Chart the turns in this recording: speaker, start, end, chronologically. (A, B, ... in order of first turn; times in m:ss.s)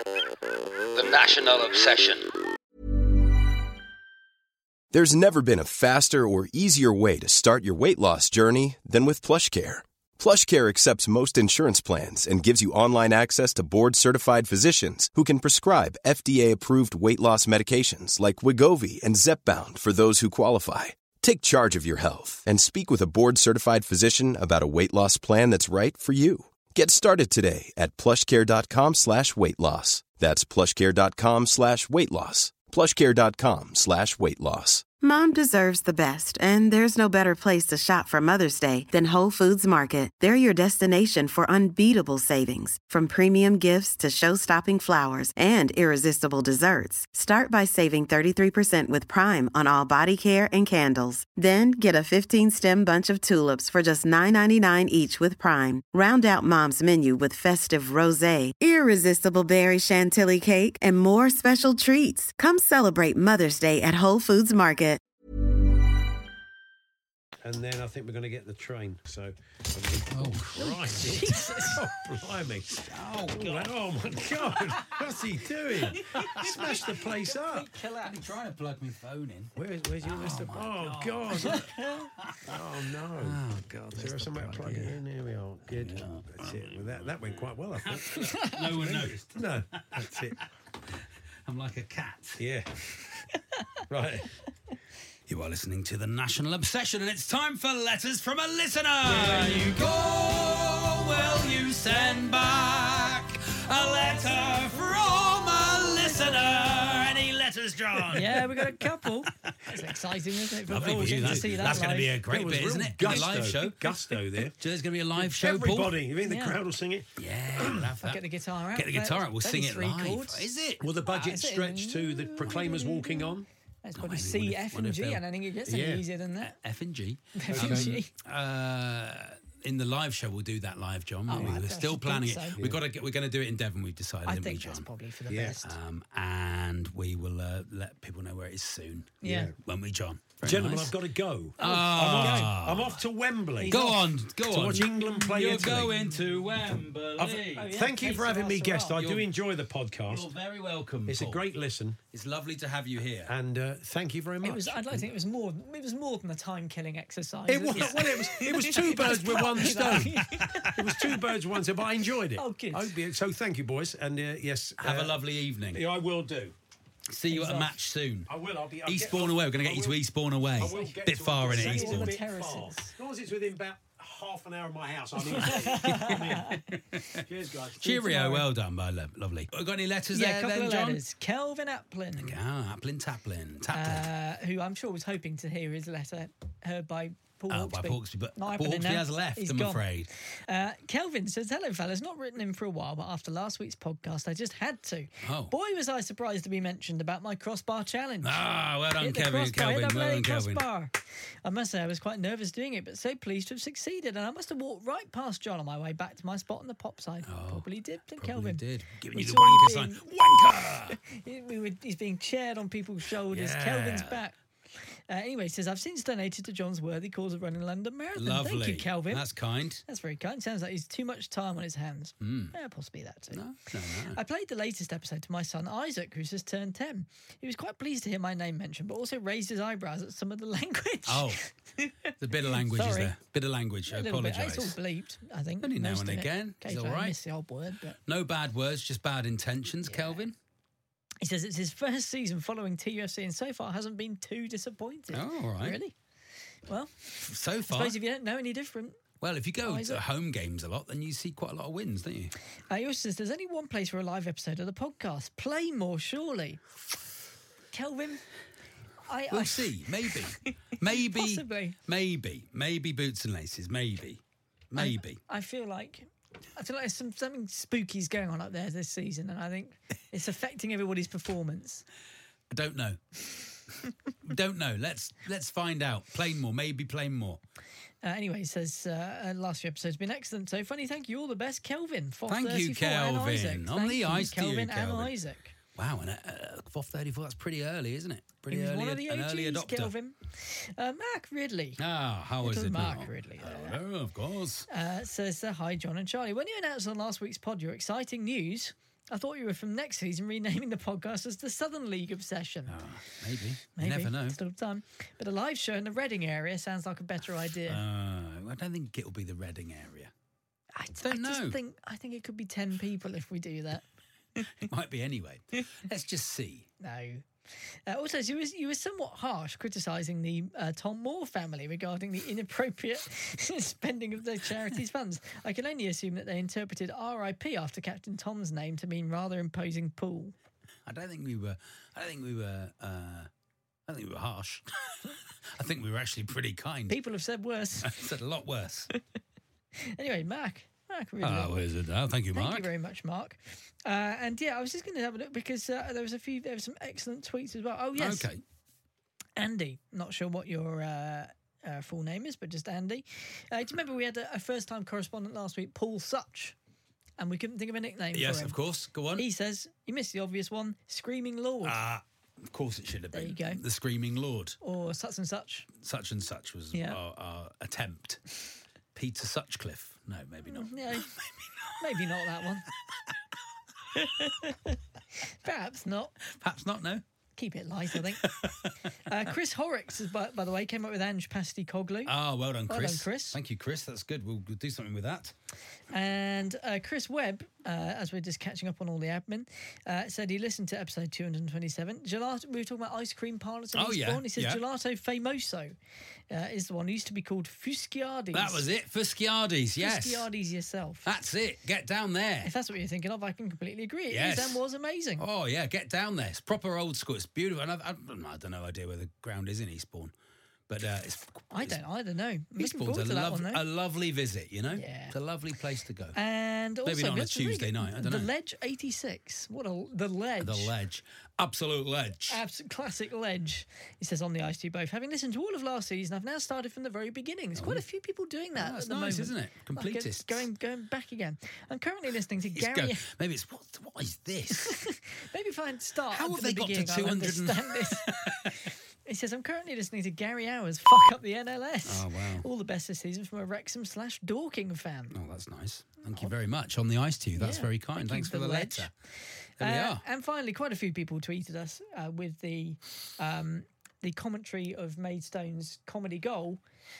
0:00.9-0:02.3 A
0:04.9-0:34.8 B
0:35.0-1:05.0 C
1:07.4-1:17.7 D
1:10.1-1:11.0 A
1:10.6-1:11.8 E
1:12.8-1:13.7 A
1:17.2-1:18.2 E
1:18.0-1:21.6 A
1:19.6-1:21.7 D
1:21.4-1:22.1 E
1:22.2-1:22.6 A
1:22.4-1:23.4 D
1:23.2-1:25.0 A
1:23.9-1:30.4 D
1:25.7-1:30.5 A
1:28.3-1:28.6 E
1:31.5-1:32.4 A
1:32.4-1:32.7 D
1:33.9-1:34.3 D
1:35.3-1:49.7 A
1:39.1-1:39.6 E
1:48.1-1:52.2 E
1:50.6-1:56.0 A
1:50.7-1:54.6 D
1:55.2-1:57.9 D
1:56.2-1:56.6 E
1:57.2-2:00.8 A
1:58.0-2:00.5 E
2:00.8-2:03.5 D
2:01.1-2:06.6 E
2:04.0-2:05.2 A
2:05.7-2:06.0 D
2:06.4-2:14.9 A
2:07.4-2:08.1 E
2:07.5-2:08.0 D
2:11.3-2:12.6 E
2:11.3-2:11.6 D
2:14.2-2:15.8 E
2:15.3-2:15.6 D
2:15.6-2:21.0 A
2:19.2-2:19.5 E
2:19.2-2:19.5 D
2:20.4-2:23.8 D
2:21.6-2:23.0 A
2:21.6-2:22.5 E
2:23.6-2:24.1 E
2:23.7-2:27.8 A
2:24.5-2:26.0 D
2:25.0-2:26.2 E
2:27.2-2:30.3 D
2:27.4-2:29.0 E
2:29.0-2:29.3 A
2:30.1-2:31.4 A
2:31.1-2:32.0 D
2:32.1-2:33.3 A
2:33.3-2:35.1 D
2:34.4-2:41.0 E
2:37.5-2:45.2 D
2:37.7-2:38.9 A
2:40.3-2:40.7 A
2:42.4-2:42.9 E
2:44.8-2:45.8 A
2:45.7-2:46.5 D
2:47.1-2:48.3 A
2:47.3-2:47.7 E
2:48.3-2:50.0 D
2:48.8-2:52.2 A
2:50.5-2:56.5 D
2:50.6-2:52.9 E
2:55.2-2:56.6 E
2:55.5-2:57.2 A
2:57.2-2:58.4 D
2:57.8-3:01.0 A
3:00.1-3:02.4 E
3:02.2-3:04.1 A
3:03.7-3:18.4 E
3:07.5-3:10.1 A
3:15.2-3:15.5 A
3:18.2-3:20.6 A
3:19.0-3:30.4 E
3:27.3-3:31.0 A
3:31.0-3:39.2 E
3:33.3-3:34.2 A
3:38.2-3:39.8 A
3:39.8-3:43.4 E
3:42.2-3:42.5 A
3:43.3-3:44.2 A
3:44.1-3:53.1 E
3:51.1-3:51.4 A
3:52.2-3:54.8 A
3:53.9-3:58.0 E
3:55.6-3:57.2 A
3:58.1-4:00.4 A
3:59.8-4:00.2 E
4:01.2-4:05.9 E
4:05.1-4:05.8 A
4:06.7-4:09.0 E
4:07.2-4:08.0 A
4:09.2-4:12.4 A
4:09.6-4:10.0 E
4:12.7-4:16.6 E
4:17.7-4:18.2 E
4:19.1-4:20.1 E
4:19.3-4:25.2 A
4:20.9-4:21.8 E
4:24.8-4:31.8 E
4:32.5-4:33.6 A
4:34.2-4:37.4 A
4:38.0-4:45.5 E
4:42.3-4:45.1 A
4:45.8-4:49.9 A
4:48.5-4:51.8 E
4:51.8-4:54.7 A
4:52.4-4:53.8 E
4:54.7-5:02.8 E
5:02.7-5:04.4 A
5:03.8-5:07.8 E
5:07.7-5:10.1 A
5:10.8-5:13.8 E
5:11.0-5:11.6 A
5:14.6-5:16.7 A
5:16.8-5:17.2 E
5:17.9-5:30.4 E
5:30.9-5:33.3 A
5:33.9-5:37.0 A
5:36.9-5:38.0 E
5:37.8-5:38.9 A
5:39.9-5:41.5 E
5:41.2-5:42.7 A
5:42.3-5:48.3 E
5:48.0-5:48.4 A
5:49.4-5:56.5 E
5:57.2-5:58.6 E
5:58.1-5:59.2 A
5:59.1-6:01.8 E
6:01.6-6:04.6 A
6:03.1-6:03.6 E
6:04.6-6:05.7 E
6:05.8-6:08.3 A
6:06.7-6:07.0 E
6:08.9-6:11.7 A
6:10.5-6:11.1 E
6:11.8-6:12.7 E
6:13.9-6:16.2 E
6:16.3-6:17.0 A
6:17.4-6:18.3 E
6:18.2-6:18.7 A
6:19.1-6:22.1 E
6:22.1-6:25.3 A
6:22.7-6:23.4 E
6:25.9-6:35.7 E
6:33.7-6:34.6 A
6:36.3-6:38.6 E
6:38.3-6:40.3 A
6:39.8-6:41.1 E
6:41.0-6:42.5 A
6:42.4-6:45.2 E
6:44.1-6:44.6 A
6:45.2-6:50.1 A
6:50.7-6:51.8 A
6:51.5-6:53.6 E
6:52.6-6:56.2 A
6:54.7-6:55.1 E
6:56.1-7:00.7 E
6:56.8-6:58.3 A
7:00.4-7:02.4 A
7:02.3-7:13.0 E
7:07.6-7:07.8 A
7:08.6-7:10.5 A
7:12.5-7:14.8 A
7:14.5-7:25.2 E
7:16.1-7:18.5 A
7:21.8-7:22.5 A
7:25.1-7:28.9 A
7:27.4-7:28.9 E
7:29.6-7:36.6 E
7:29.6-7:30.0 A